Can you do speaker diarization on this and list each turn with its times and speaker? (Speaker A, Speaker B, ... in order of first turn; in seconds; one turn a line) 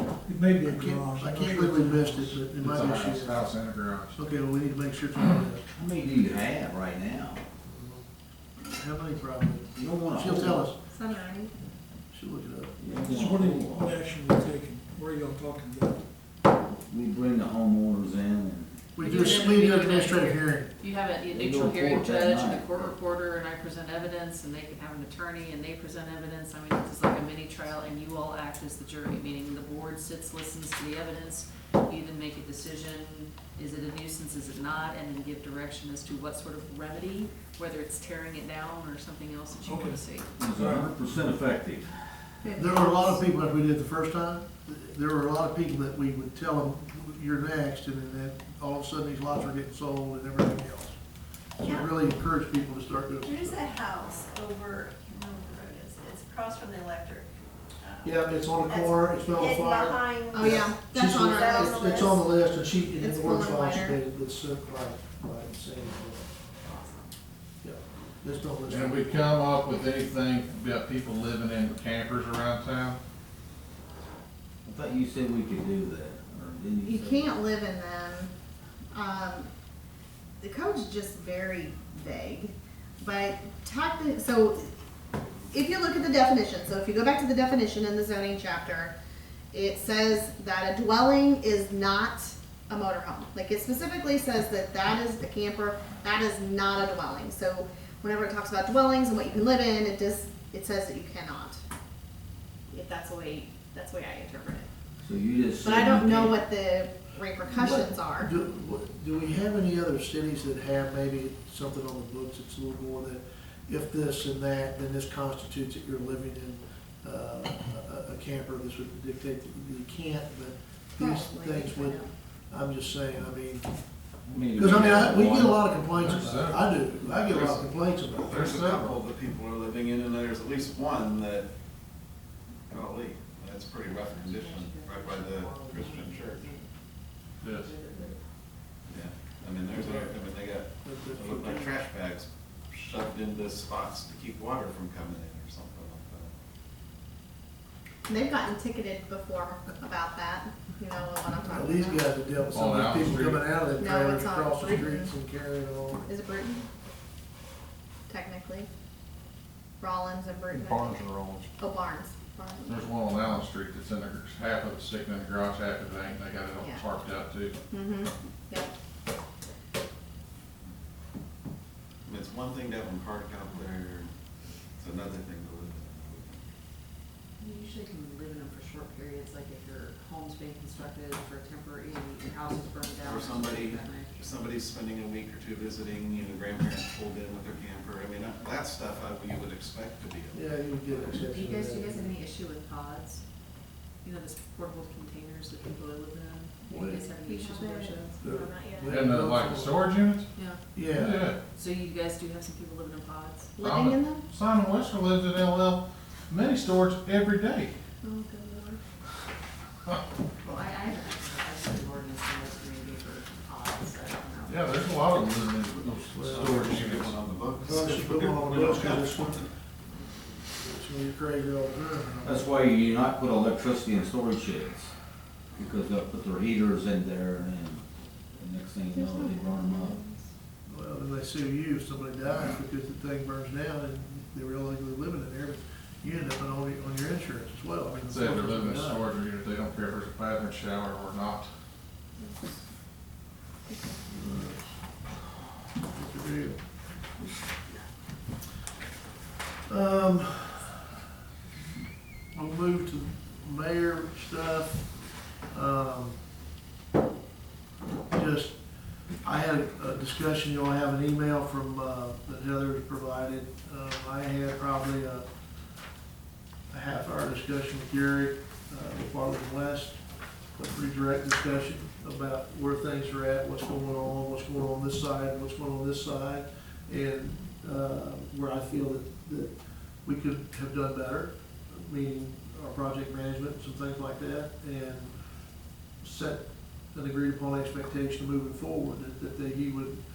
Speaker A: 0.3-2.5
Speaker B: 0.6-3.5
Speaker C: 2.5-4.2
Speaker B: 4.1-5.6
Speaker D: 5.7-7.4
Speaker B: 7.7-8.0
Speaker B: 8.6-10.8
Speaker D: 9.8-10.7
Speaker E: 10.9-11.5
Speaker B: 12.1-12.8
Speaker D: 12.8-14.0
Speaker A: 13.0-16.0
Speaker D: 16.7-18.8
Speaker B: 18.9-20.7
Speaker F: 19.0-40.3
Speaker D: 21.3-23.0
Speaker A: 39.6-40.0
Speaker D: 40.4-42.2
Speaker A: 40.5-40.9
Speaker E: 42.4-43.2
Speaker B: 42.6-51.0
Speaker B: 51.6-53.7
Speaker G: 53.3-57.3
Speaker B: 58.0-66.3
Speaker G: 58.7-60.3
Speaker E: 60.3-62.2
Speaker E: 62.9-64.0
Speaker B: 67.6-69.1
Speaker C: 68.7-73.0
Speaker D: 74.7-77.4
Speaker E: 76.8-78.3
Speaker E: 78.9-79.5
Speaker E: 80.4-84.7
Speaker E: 85.5-88.9
Speaker E: 89.5-101.6
Speaker E: 102.7-104.7
Speaker D: 105.0-106.4
Speaker E: 105.6-108.3
Speaker B: 107.5-123.7
Speaker E: 121.0-122.1
Speaker D: 124.3-125.5
Speaker B: 124.6-128.9
Speaker C: 124.6-127.7
Speaker H: 128.1-131.5
Speaker C: 128.3-129.0
Speaker H: 132.7-136.4
Speaker F: 134.1-136.7
Speaker C: 137.4-137.7
Speaker F: 137.5-138.2
Speaker H: 138.9-146.3
Speaker B: 140.8-141.8
Speaker E: 148.1-152.1
Speaker B: 151.5-156.1
Speaker C: 152.5-153.4
Speaker E: 153.8-155.1
Speaker E: 156.1-156.7
Speaker E: 158.1-158.7
Speaker E: 159.8-161.0
Speaker C: 160.5-161.5
Speaker E: 161.6-162.8
Speaker C: 162.7-167.6
Speaker E: 166.6-166.8
Speaker E: 167.7-168.7
Speaker H: 172.1-174.1
Speaker H: 174.8-176.4
Speaker F: 177.4-184.3
Speaker H: 183.0-190.4
Speaker B: 190.3-192.1
Speaker F: 191.0-193.2
Speaker F: 194.0-198.2
Speaker B: 196.7-197.0
Speaker E: 197.2-198.9
Speaker B: 198.2-199.8
Speaker C: 198.9-200.3
Speaker F: 200.3-200.6
Speaker B: 200.8-201.3
Speaker C: 200.8-201.4
Speaker F: 201.6-203.5
Speaker E: 203.6-204.2
Speaker C: 203.6-207.8
Speaker E: 208.0-208.8
Speaker F: 210.4-214.7
Speaker C: 214.5-217.8
Speaker B: 216.1-216.6
Speaker H: 216.2-219.4
Speaker B: 217.6-219.4
Speaker B: 220.5-222.5
Speaker D: 222.2-224.9
Speaker D: 225.6-227.8
Speaker D: 228.3-230.0
Speaker E: 228.9-230.3
Speaker B: 230.7-239.0
Speaker C: 238.1-241.5
Speaker E: 242.2-242.5
Speaker E: 243.7-244.0
Speaker B: 244.1-245.0
Speaker B: 245.8-246.6
Speaker B: 249.7-250.9
Speaker B: 252.3-256.2
Speaker B: 258.1-258.6
Speaker B: 259.1-265.3
Speaker B: 266.7-270.0
Speaker B: 270.6-279.5
Speaker B: 280.0-285.3
Speaker B: 286.0-290.0